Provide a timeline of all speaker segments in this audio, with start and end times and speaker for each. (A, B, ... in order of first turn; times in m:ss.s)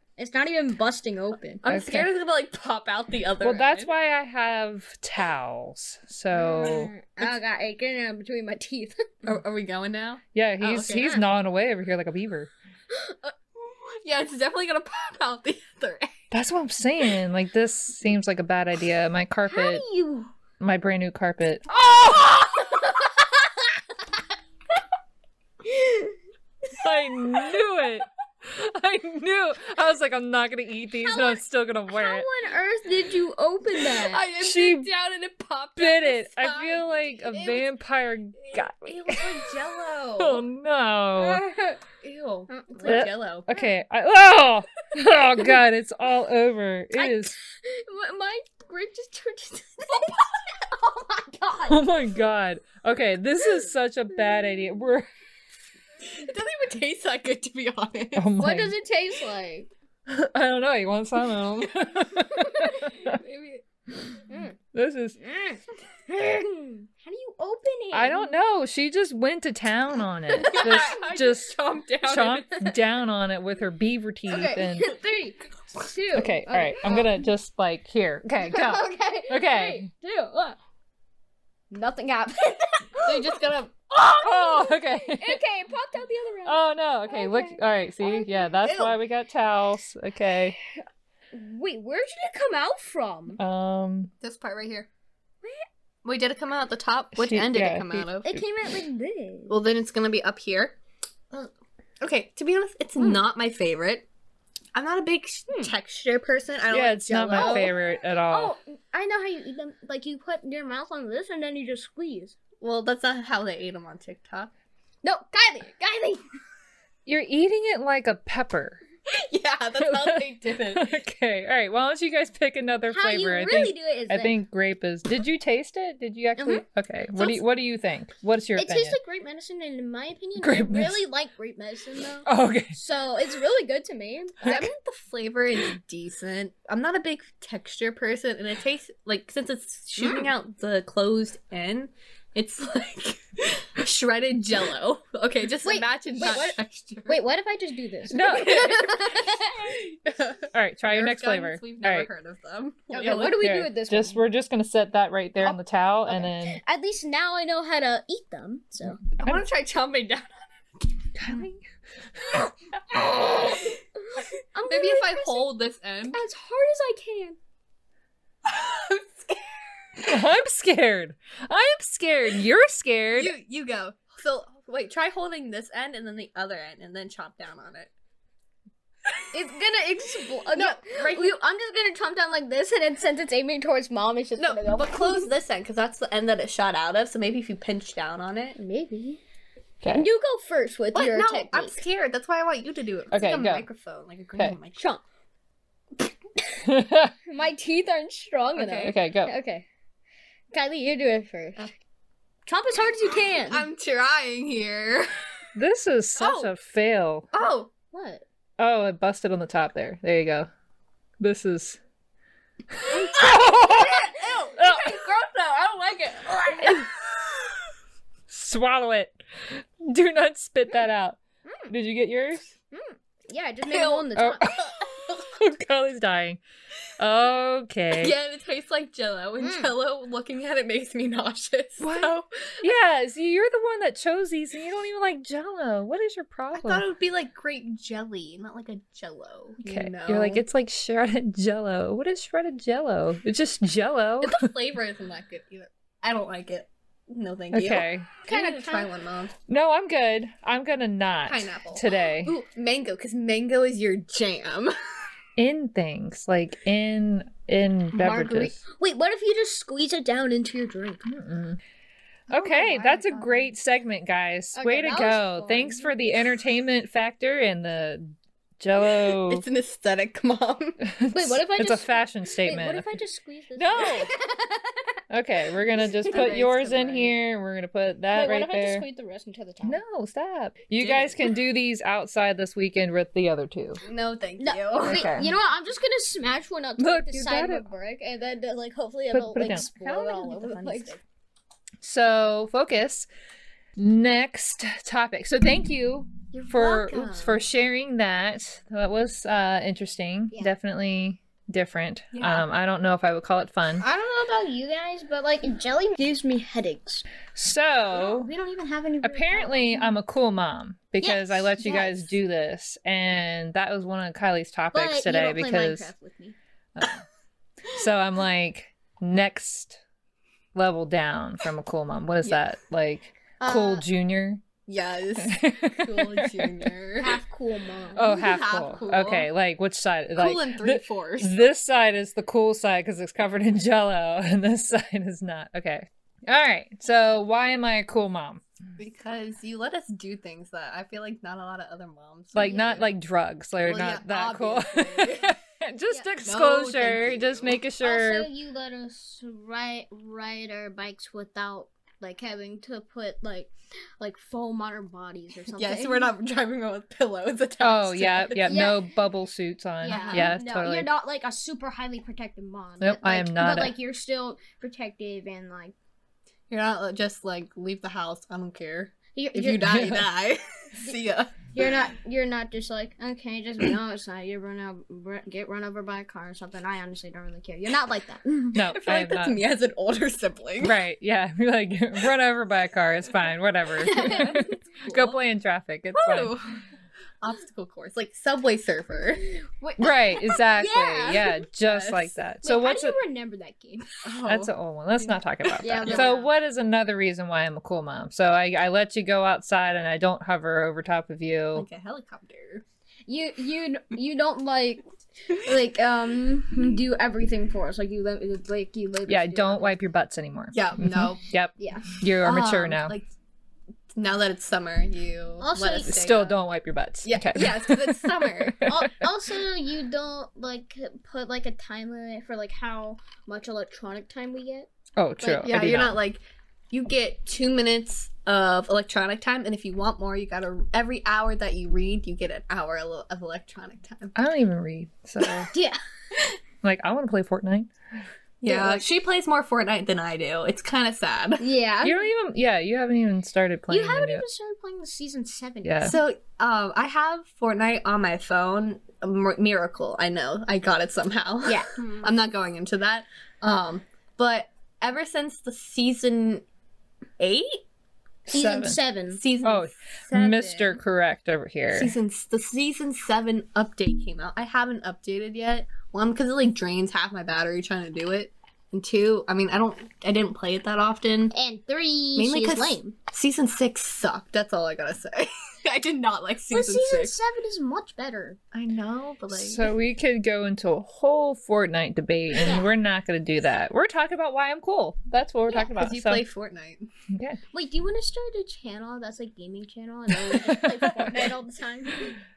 0:00.2-0:01.6 A
0:01.6-0:03.9 B
0:01.7-0:02.1 C
0:03.4-0:06.9 C
0:06.3-0:09.1 A
0:09.2-0:11.2 B
0:10.4-0:12.5 C
0:12.9-0:13.3 A
0:13.6-0:16.2 B
0:16.3-0:19.8 C
0:19.5-0:20.3 A
0:20.6-0:21.7 C
0:21.9-0:23.8 A
0:25.6-0:26.2 A
0:26.8-0:32.3 C
0:31.0-0:34.2 A
0:34.0-0:37.7 B
0:34.4-0:34.9 C
0:35.8-0:39.5 C
0:38.4-0:40.4 B
0:40.2-0:41.4 C
0:41.3-0:41.8 A
0:41.9-0:43.6 B
0:42.5-0:43.1 A
0:42.9-0:47.3 C
0:47.0-0:51.8 A
0:51.7-0:55.1 C
0:56.0-0:58.3 B
0:58.2-0:58.8 C
0:58.4-0:59.7 A
1:00.1-1:03.2 C
1:02.3-1:02.9 A
1:03.1-1:03.6 B
1:04.3-1:04.6 A
1:04.7-1:05.2 C
1:05.2-1:08.3 A
1:07.9-1:14.9 C
1:10.4-1:12.8 B
1:14.3-1:17.2 A
1:16.1-1:19.9 C
1:18.4-1:20.6 A
1:21.7-1:23.4 A
1:23.0-1:23.8 B
1:24.0-1:28.6 A
1:24.2-1:25.4 C
1:26.5-1:30.6 C
1:28.6-1:29.0 B
1:31.3-1:33.4 A
1:33.4-1:34.1 C
1:34.2-1:34.9 B
1:36.0-1:38.3 B
1:37.2-1:38.4 C
1:38.2-1:39.6 A
1:39.5-1:40.8 B
1:41.3-1:44.1 B
1:43.0-1:43.2 A
1:44.8-1:47.7 B
1:46.7-1:48.5 C
1:47.3-1:47.7 A
1:48.3-1:52.4 A
1:52.6-1:54.5 B
1:55.0-1:56.2 A
1:57.1-1:58.8 C
1:59.1-2:01.0 B
1:59.8-2:09.0 C
2:02.9-2:04.4 A
2:06.4-2:06.6 A
2:07.2-2:07.4 A
2:08.6-2:14.6 A
2:10.4-2:11.0 C
2:12.3-2:12.8 C
2:14.4-2:27.2 B
2:20.0-2:20.3 A
2:25.6-2:26.6 A
2:27.1-2:29.8 A
2:28.1-2:28.9 C
2:28.5-2:33.5 B
2:30.5-2:32.1 C
2:32.9-2:34.2 A
2:33.4-2:36.6 C
2:36.1-2:39.0 A
2:39.2-2:41.4 B
2:41.2-2:41.6 C
2:43.0-2:45.5 A
2:44.7-2:46.2 B
2:46.1-2:47.4 A
2:48.4-2:50.1 B
2:50.0-2:53.3 C
2:53.2-2:57.9 B
2:59.3-3:05.3 A
3:00.5-3:01.4 B
3:04.4-3:08.6 B
3:08.6-3:09.2 A
3:09.9-3:11.8 A
3:10.9-3:14.9 B
3:13.1-3:13.7 C
3:14.8-3:15.0 A
3:16.6-3:17.1 C
3:17.3-3:19.7 A
3:18.6-3:18.9 B
3:18.8-3:19.3 C
3:20.5-3:21.7 A
3:22.5-3:23.6 A
3:23.4-3:25.1 B
3:25.6-3:27.3 C
3:26.2-3:26.5 B
3:27.3-3:27.7 B
3:27.9-3:28.2 A
3:28.6-3:30.5 C
3:31.2-3:31.8 C
3:32.7-3:35.0 C
3:33.0-3:36.9 A
3:38.3-3:42.5 C
3:41.5-3:41.7 A
3:42.7-3:44.6 A
3:43.7-3:45.2 B
3:44.2-3:46.4 C
3:47.0-3:48.1 C
3:48.0-3:52.6 B
3:49.4-3:49.7 A
3:51.8-3:56.8 C
3:56.5-4:00.4 B
3:59.6-4:04.5 C
4:04.2-4:09.4 B
4:07.5-4:08.1 C
4:08.3-4:08.9 A
4:09.5-4:12.4 C
4:11.3-4:14.7 B
4:15.4-4:18.6 C
4:18.0-4:21.0 A
4:21.1-4:21.6 C
4:22.3-4:29.5 C
4:22.3-4:23.5 B
4:24.6-4:25.9 A
4:28.8-4:30.8 B
4:30.8-4:33.0 C
4:31.1-4:34.8 A
4:33.6-4:34.1 C
4:35.1-4:38.8 C
4:36.1-4:36.5 A
4:36.1-4:37.1 B
4:38.1-4:39.8 A
4:39.6-4:43.8 C
4:40.8-4:41.3 B
4:43.8-4:45.1 B
4:44.4-4:51.0 A
4:44.9-4:45.3 C
4:46.8-4:47.7 C
4:49.1-4:49.7 C
4:49.8-4:51.0 B
4:51.8-4:53.1 C
4:53.8-5:03.8 C
4:56.3-4:57.4 B
5:02.1-5:02.4 B
5:03.8-5:07.0 A
5:07.4-5:08.3 C
5:08.0-5:10.0 A
5:09.0-5:15.9 C
5:11.0-5:12.1 A
5:14.7-5:16.4 A
5:16.8-5:17.0 C
5:17.7-5:19.8 C
5:20.5-5:24.4 C
5:23.4-5:23.8 B
5:24.7-5:27.2 B
5:25.2-5:26.7 C
5:27.0-5:28.6 A
5:28.0-5:38.4 C
5:28.1-5:29.3 B
5:30.2-5:31.4 B
5:38.8-5:42.8 B
5:42.3-5:48.3 C
5:42.4-5:42.8 A
5:43.6-5:45.4 B
5:46.2-5:47.6 B
5:47.8-5:56.1 A
5:55.5-5:58.6 B
5:57.6-6:00.9 C
5:58.5-5:58.8 A
5:59.8-6:05.7 A
5:59.9-6:00.4 B
6:02.8-6:03.8 C
6:06.5-6:11.5 B
6:09.1-6:09.7 A
6:09.7-6:10.1 C
6:11.5-6:18.6 A
6:18.5-6:19.4 C
6:18.6-6:20.8 B
6:20.6-6:26.4 C
6:23.8-6:24.5 A
6:23.9-6:25.2 B
6:25.9-6:26.6 B
6:27.2-6:29.3 B
6:29.6-6:31.4 A
6:29.8-6:33.0 C
6:31.6-6:32.1 B
6:32.4-6:34.0 A
6:34.0-6:34.5 B
6:34.2-6:41.7 C
6:35.4-6:36.1 B
6:35.6-6:36.3 A
6:41.6-6:42.6 B
6:43.1-6:49.8 A
6:49.1-6:53.0 C
6:50.5-6:51.2 B
6:51.6-6:51.9 A
6:52.2-6:53.1 B
6:53.9-6:56.4 B
6:55.4-6:56.0 A
6:55.8-6:59.0 C
6:57.0-6:58.7 B
6:58.6-7:04.7 A
7:05.0-7:06.0 C
7:05.3-7:14.1 B
7:14.2-7:15.5 C
7:15.5-7:15.8 A
7:16.6-7:17.7 C
7:18.4-7:21.4 B
7:18.5-7:18.8 A
7:21.4-7:22.1 A
7:21.8-7:24.2 C
7:23.7-7:26.0 A
7:25.6-7:26.0 C
7:25.8-7:36.4 B
7:31.5-7:32.1 A
7:37.2-7:37.6 B
7:38.3-7:39.2 A
7:38.3-7:38.8 C
7:38.6-7:40.8 B
7:39.4-7:41.9 C
7:41.7-7:51.3 B
7:51.3-7:53.0 A
7:52.2-7:57.2 B
7:56.5-7:58.4 A
7:58.5-7:59.7 B
7:59.3-8:06.2 C
8:05.8-8:06.9 B
8:07.1-8:07.4 C
8:07.5-8:12.2 A
8:10.4-8:11.2 C